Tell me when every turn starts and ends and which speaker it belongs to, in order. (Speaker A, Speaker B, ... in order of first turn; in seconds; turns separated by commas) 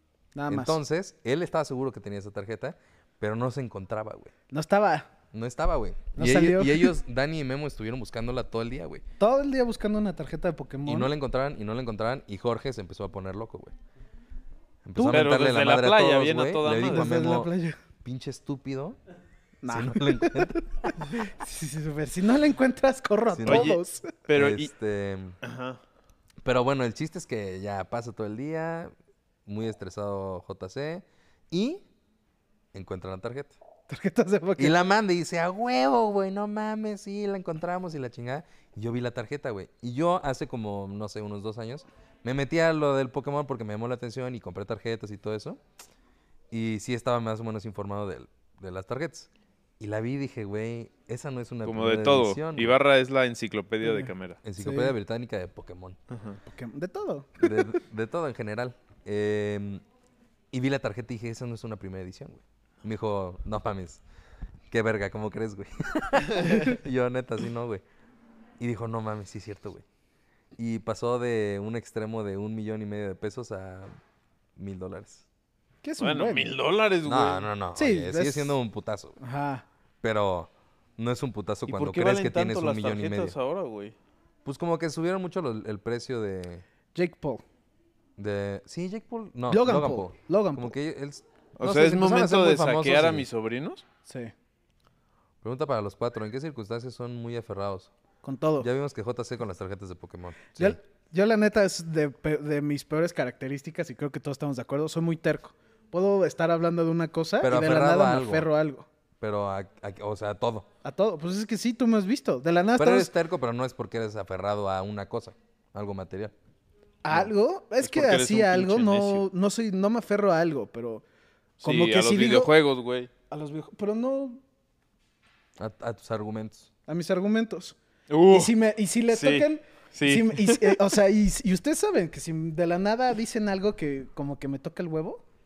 Speaker A: 0.3-0.8, Speaker B: 0.5-4.3, Speaker A: 4.5-5.1, Speaker B: 5.3-9.0, Speaker A: 6.2-6.9, Speaker A: 9.2-11.1, Speaker B: 10.8-13.7, Speaker B: 14.8-17.5, Speaker A: 14.9-15.3, Speaker C: 15.1-17.1, Speaker A: 16.8-17.8, Speaker B: 18.0-19.0, Speaker A: 19.6-24.1, Speaker B: 19.7-21.1, Speaker B: 23.3-23.7, Speaker C: 23.4-24.7, Speaker B: 24.3-25.4, Speaker C: 25.4-25.8, Speaker B: 26.4-28.9, Speaker B: 29.4-31.8, Speaker B: 32.7-33.5, Speaker A: 33.9-34.7, Speaker B: 34.6-45.6, Speaker B: 46.5-49.3, Speaker B: 49.8-52.8, Speaker C: 51.6-54.4, Speaker A: 53.8-54.9, Speaker B: 54.4-56.0, Speaker C: 56.1-56.4, Speaker A: 56.5-57.7, Speaker B: 57.4-59.8, Speaker B: 60.5-64.0, Speaker B: 64.7-67.8, Speaker B: 68.6-69.8, Speaker B: 70.6-73.9, Speaker B: 74.5-75.2, Speaker A: 75.8-76.5, Speaker C: 76.0-77.5, Speaker B: 77.0-79.2, Speaker A: 77.8-78.6, Speaker A: 79.2-79.6, Speaker B: 80.0-83.3, Speaker C: 81.7-83.9, Speaker B: 84.4-86.6, Speaker A: 86.9-87.4, Speaker B: 88.2-93.3, Speaker A: 89.5-90.7, Speaker C: 91.6-93.8, Speaker A: 94.1-94.3, Speaker B: 95.4-97.9, Speaker A: 98.2-98.7, Speaker B: 98.6-100.8, Speaker A: 100.6-108.9, Speaker B: 107.4-108.5, Speaker B: 109.2-110.7, Speaker A: 110.8-113.1, Speaker B: 112.8-116.3, Speaker A: 117.0-121.0, Speaker C: 117.8-119.2, Speaker A: 121.6-122.5, Speaker C: 121.6-123.1, Speaker A: 123.3-124.4, Speaker B: 125.6-126.7, Speaker A: 126.9-127.8, Speaker C: 128.1-128.5, Speaker A: 128.3-135.2, Speaker C: 129.1-130.8